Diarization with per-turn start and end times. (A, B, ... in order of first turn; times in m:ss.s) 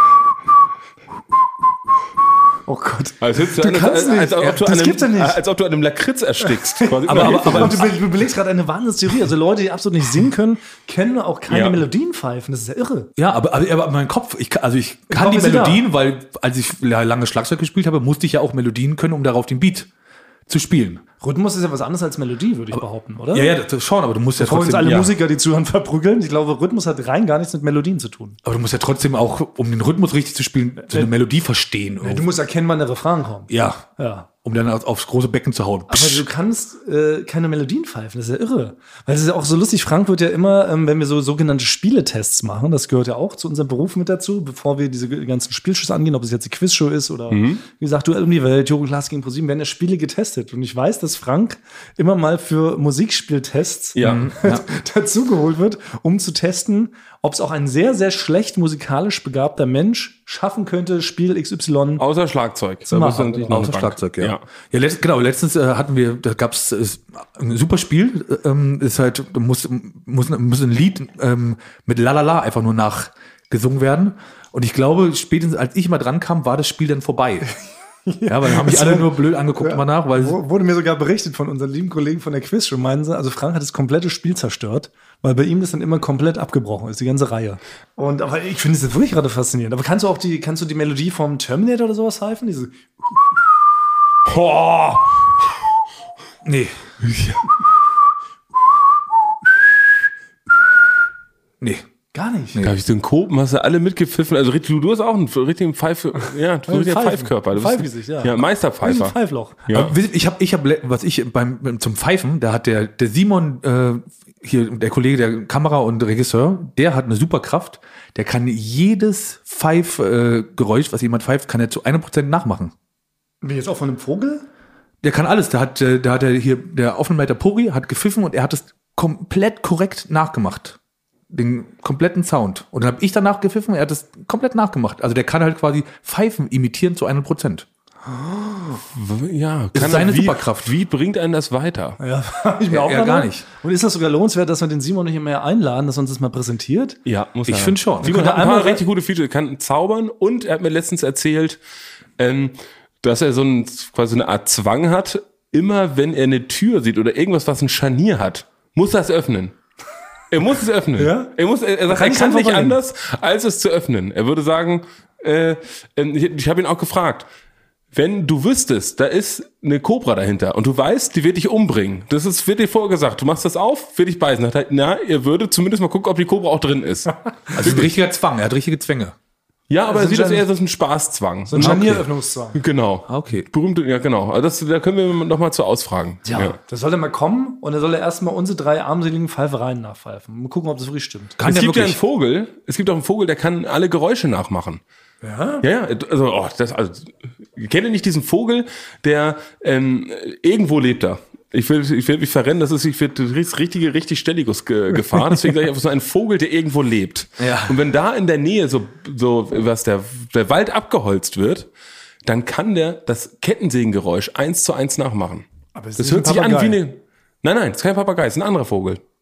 0:02.7-0:05.4 A
0:03.2-0:07.9 B
0:06.4-0:13.1 A
0:07.1-0:08.0 C
0:11.5-0:11.8 B
0:13.2-0:19.9 C
0:15.1-0:15.8 A
0:20.5-0:21.0 C
0:21.2-0:23.5 A
0:23.3-0:25.1 C
0:24.4-0:28.4 A
0:24.8-0:25.1 B
0:28.4-0:32.3 C
0:30.8-0:31.1 A
0:32.0-0:34.3 A
0:33.5-0:33.8 C
0:34.4-0:36.2 C
0:35.9-1:02.0 A
0:47.3-0:47.6 B
0:54.0-0:54.3 B
0:54.0-0:54.6 C
1:02.0-1:04.4 B
1:02.9-1:03.6 A
1:03.5-1:17.5 C
1:18.1-1:32.8 A
1:18.3-1:20.4 C
1:34.3-1:35.0 B
1:36.4-1:36.8 C
1:37.0-1:37.4 B
1:41.6-1:41.9 C
1:42.1-1:42.6 A
1:42.6-1:50.0 B
1:46.7-1:49.6 A
1:49.7-2:02.7 C
2:03.4-2:04.4 A
2:05.0-2:10.8 C
2:11.3-2:17.7 C
2:18.5-2:18.8 C
2:18.9-2:22.0 B
2:19.7-2:20.8 C
2:22.0-2:27.0 A
2:22.7-2:23.4 C
2:27.1-2:31.6 B
2:27.5-2:28.2 C
2:28.0-2:28.8 A
2:32.2-2:39.6 B
2:40.3-2:47.3 B
2:41.0-2:41.3 A
2:41.9-2:42.8 A
2:47.9-2:57.9 B
2:57.6-2:59.2 C
2:59.7-3:06.6 B
2:59.9-3:00.5 A
3:01.5-3:02.6 A
3:01.6-3:01.9 C
3:03.1-3:03.5 C
3:06.2-3:11.4 A
3:11.4-3:12.0 C
3:11.4-3:14.8 B
3:15.2-3:15.6 A
3:15.6-3:31.7 B
3:27.4-3:27.8 C
3:32.2-3:35.5 B
3:35.8-3:36.8 A
3:36.0-3:39.0 B